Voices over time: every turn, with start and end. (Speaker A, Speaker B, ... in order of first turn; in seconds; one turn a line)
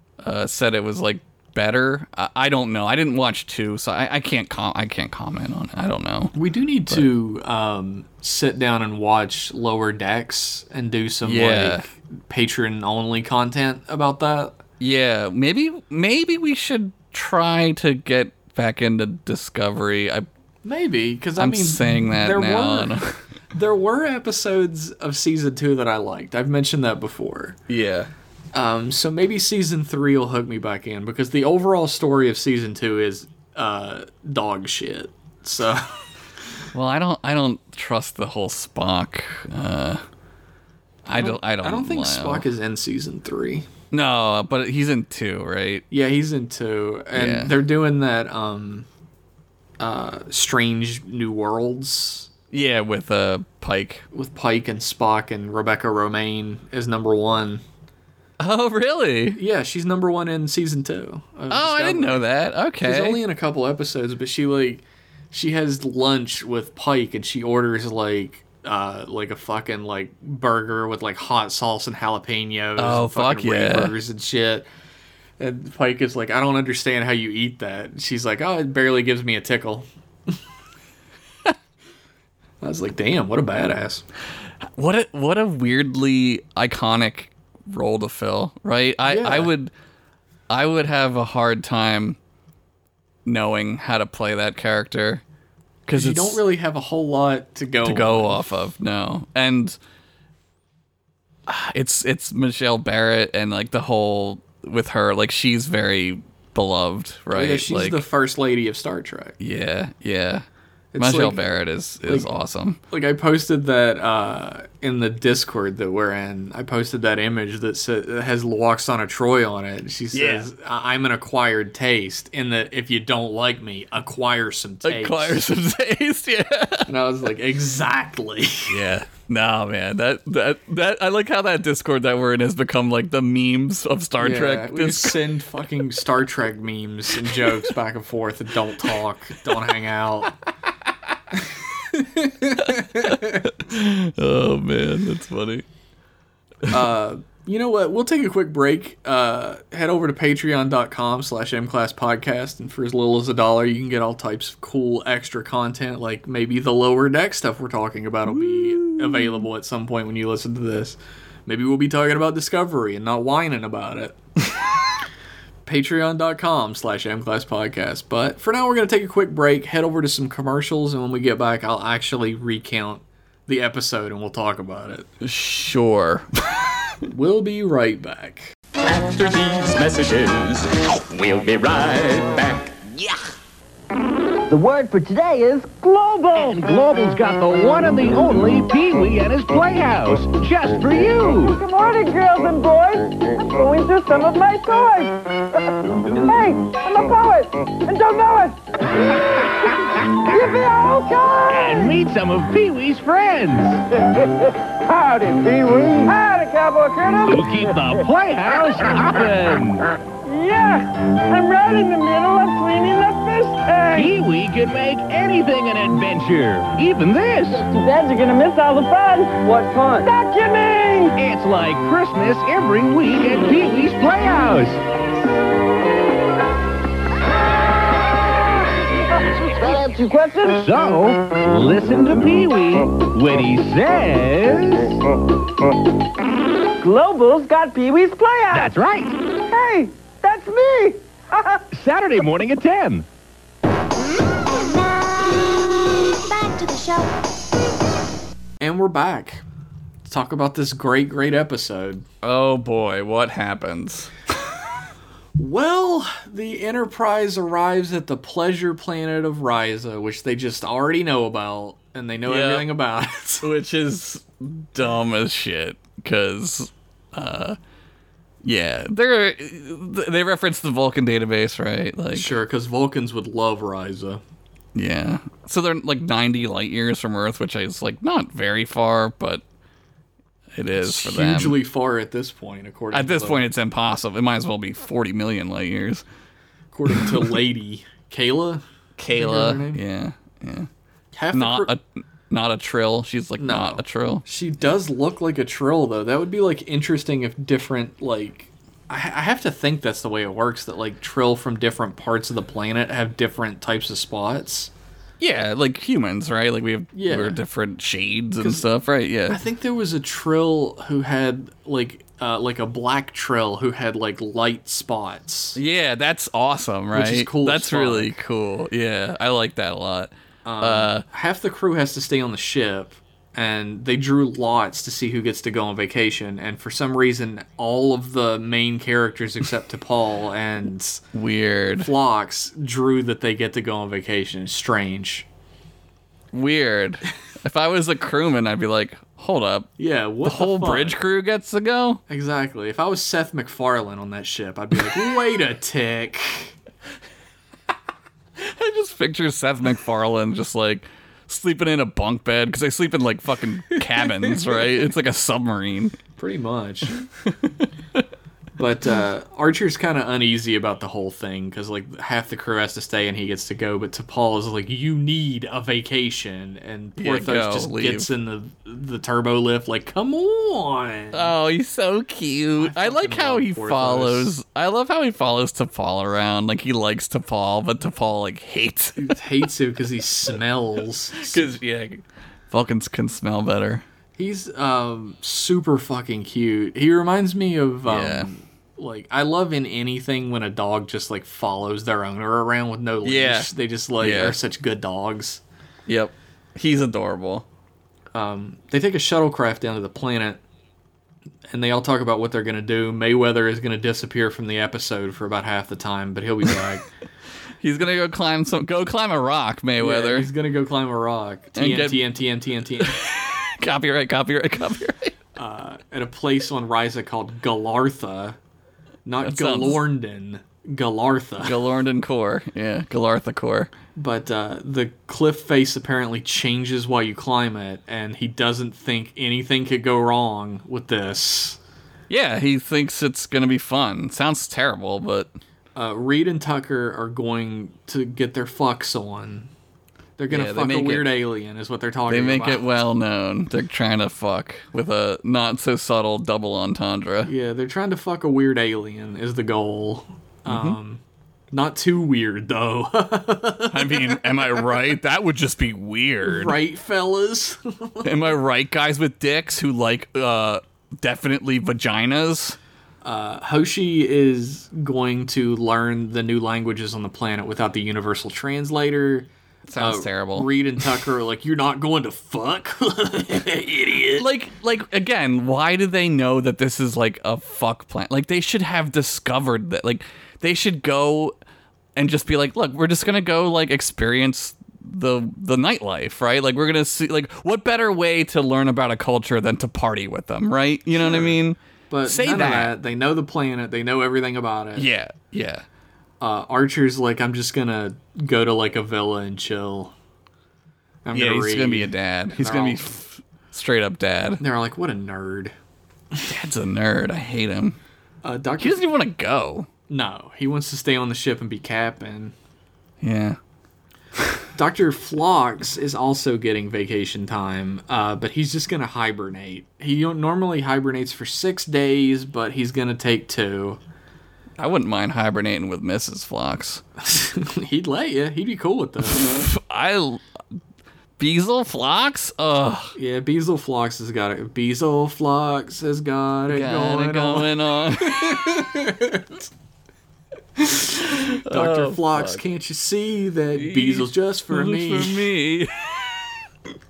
Speaker A: 0.2-6.3
Speaker B: 6.3-14.6
Speaker A: 11.2-11.9
Speaker A: 14.8-20.3
Speaker B: 20.6-23.0
Speaker A: 21.4-23.2
Speaker B: 23.5-27.6
Speaker A: 27.7-28.1
Speaker B: 28.5-36.0
Speaker A: 36.7-40.0
Speaker A: 41.1-42.5
Speaker B: 41.1-43.7
Speaker A: 43.9-45.8
Speaker B: 45.9-48.9
Speaker A: 47.1-47.5
Speaker B: 49.8-52.3
Speaker A: 52.5-54.0
Speaker B: 54.1-57.6
Speaker A: 58.4-59.4
Speaker B: 59.3-62.3
Speaker A: 61.5-63.2
Speaker B: 62.8-74.7
Speaker A: 72.8-73.9
Speaker B: 75.4-79.9
Speaker B: 82.6-84.0
Speaker A: 84.7-89.7
Speaker B: 89.0-89.5
Speaker A: 90.5-92.2
Speaker A: 93.2-95.2
Speaker A: 95.9-96.4
Speaker B: 95.9-98.5
Speaker A: 97.8-99.8
Speaker A: 101.5-108.0
Speaker B: 107.3-109.4
Speaker A: 109.4-110.5
Speaker B: 110.9-111.5
Speaker A: 111.0-112.8
Speaker B: 112.1-112.3
Speaker B: 112.9-125.4
Speaker A: 120.1-120.5
Speaker A: 124.8-126.9
Speaker B: 126.9-128.8
Speaker A: 128.7-135.2
Speaker B: 134.2-140.3
Speaker A: 137.2-137.7
Speaker B: 141.8-143.5
Speaker A: 142.6-145.7
Speaker B: 146.7-164.2
Speaker A: 158.3-159.4
Speaker B: 165.7-175.1
Speaker A: 175.2-176.7
Speaker B: 177.1-178.5
Speaker C: 178.8-183.2
Speaker D: 184.5-186.6
Speaker E: 186.4-191.6
Speaker D: 191.5-201.9
Speaker E: 201.5-203.8
Speaker D: 204.9-207.7
Speaker E: 207.3-209.9
Speaker D: 210.2-214.1
Speaker E: 213.9-217.7
Speaker D: 217.5-221.2
Speaker E: 221.2-224.8
Speaker D: 229.4-230.7
Speaker E: 230.5-235.0
Speaker D: 236.8-238.7
Speaker E: 238.5-239.1
Speaker D: 239.4-241.6
Speaker E: 241.7-243.1
Speaker F: 244.5-247.1
Speaker B: 248.6-249.4
Speaker B: 250.1-252.1
Speaker A: 252.2-254.1
Speaker B: 255.4-263.4
Speaker A: 262.3-262.7
Speaker A: 263.4-267.6
Speaker A: 268.4-272.4
Speaker B: 272.1-274.2
Speaker A: 274.8-279.4
Speaker A: 280.6-281.6
Speaker B: 280.8-283.5
Speaker A: 282.9-286.1
Speaker B: 286.7-289.8
Speaker A: 286.9-287.2
Speaker A: 289.0-290.7
Speaker B: 291.1-291.7
Speaker A: 291.3-294.2
Speaker B: 293.4-304.7
Speaker A: 305.2-309.4
Speaker B: 306.9-307.4
Speaker B: 308.4-308.6
Speaker B: 309.3-315.6
Speaker A: 315.6-321.1
Speaker B: 316.9-318.2
Speaker B: 320.4-331.0
Speaker A: 331.1-331.9
Speaker B: 331.8-335.3
Speaker A: 336.3-342.0
Speaker B: 339.8-341.0
Speaker B: 342.1-346.6
Speaker A: 348.4-356.0
Speaker B: 354.0-354.6
Speaker B: 356.2-357.0
Speaker A: 357.3-358.0
Speaker B: 358.6-371.3
Speaker A: 367.0-368.1
Speaker A: 371.1-379.5
Speaker B: 372.6-374.3
Speaker B: 379.0-381.5
Speaker A: 381.2-383.8
Speaker B: 384.2-395.4
Speaker A: 387.9-388.3
Speaker A: 393.0-394.4
Speaker A: 395.9-397.4
Speaker B: 398.1-400.4
Speaker B: 401.5-406.9
Speaker A: 407.6-410.3
Speaker B: 409.8-413.0
Speaker A: 411.6-412.0
Speaker A: 412.8-415.2
Speaker B: 415.4-418.4
Speaker B: 419.1-421.6
Speaker A: 419.2-419.8
Speaker A: 421.4-423.7
Speaker B: 424.0-431.6
Speaker A: 432.1-435.3
Speaker B: 435.8-439.5
Speaker B: 440.2-442.7
Speaker A: 440.3-441.1
Speaker A: 442.1-447.3
Speaker B: 447.2-454.6
Speaker A: 450.5-450.8
Speaker A: 453.7-456.6
Speaker B: 456.2-458.3
Speaker A: 458.0-462.6
Speaker B: 463.0-474.3
Speaker A: 469.7-470.9
Speaker A: 474.1-481.4
Speaker A: 482.0-492.8
Speaker B: 491.0-491.4
Speaker B: 491.9-494.9
Speaker A: 494.8-495.6
Speaker B: 496.2-499.9
Speaker B: 501.1-502.9
Speaker A: 501.1-504.4
Speaker B: 504.4-505.6
Speaker A: 506.3-507.8
Speaker B: 508.2-508.9
Speaker A: 508.6-509.7
Speaker B: 509.9-512.3
Speaker A: 513.0-513.4
Speaker B: 514.5-523.8
Speaker A: 524.6-526.8
Speaker B: 527.0-529.5
Speaker A: 529.1-530.2
Speaker A: 531.2-532.9
Speaker B: 533.0-539.3
Speaker A: 536.5-538.6
Speaker B: 540.6-545.3
Speaker A: 541.1-542.4
Speaker A: 543.5-546.4